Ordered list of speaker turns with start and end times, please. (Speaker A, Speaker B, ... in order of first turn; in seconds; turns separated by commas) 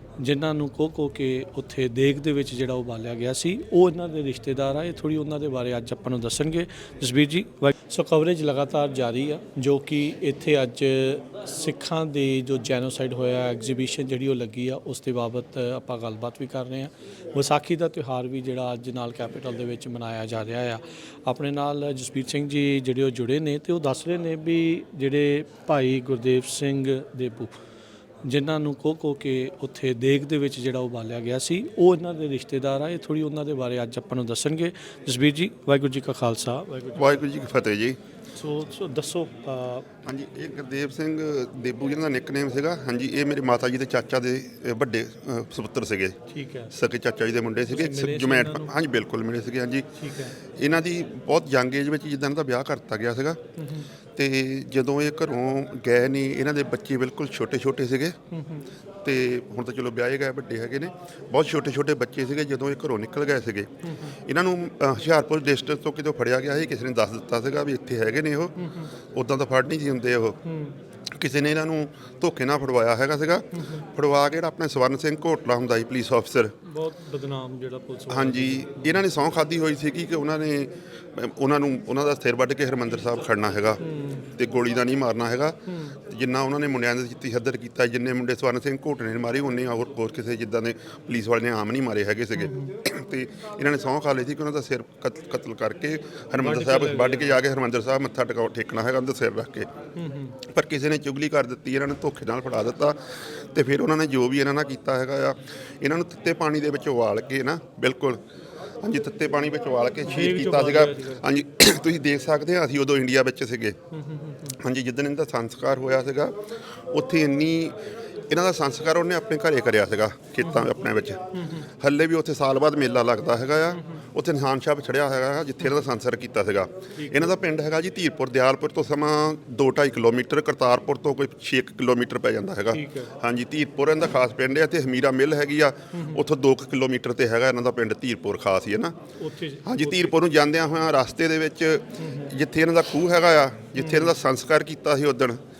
Speaker A: 0.2-27.6, Speaker A: 28.2-37.2, Speaker B: 36.9-38.0, Speaker A: 38.3-39.9, Speaker B: 40.0-46.1, Speaker A: 46.3-46.7, Speaker B: 46.7-49.9, Speaker A: 47.7-48.7, Speaker A: 50.0-50.3, Speaker B: 50.5-53.4, Speaker A: 53.6-53.9, Speaker B: 54.1-58.1, Speaker A: 58.3-58.6, Speaker B: 59.0-63.7, Speaker B: 64.2-68.5, Speaker A: 68.6-68.9, Speaker B: 69.1-70.4, Speaker A: 70.5-70.8, Speaker B: 71.1-76.5, Speaker A: 76.6-79.0, Speaker B: 78.1-99.7, Speaker A: 83.8-84.3, Speaker A: 85.7-85.9, Speaker A: 92.4-92.8, Speaker A: 96.4-97.4, Speaker A: 100.0-100.3, Speaker B: 100.5-108.2, Speaker B: 108.8-113.8, Speaker A: 110.0-111.2, Speaker A: 113.9-114.5, Speaker B: 114.5-116.3, Speaker B: 116.9-117.8, Speaker B: 118.3-138.9, Speaker A: 121.4-121.6, Speaker A: 127.0-127.3, Speaker A: 132.7-133.1, Speaker A: 135.9-136.2, Speaker A: 139.2-140.2, Speaker B: 139.7-145.4, Speaker A: 142.0-142.3, Speaker A: 143.8-144.1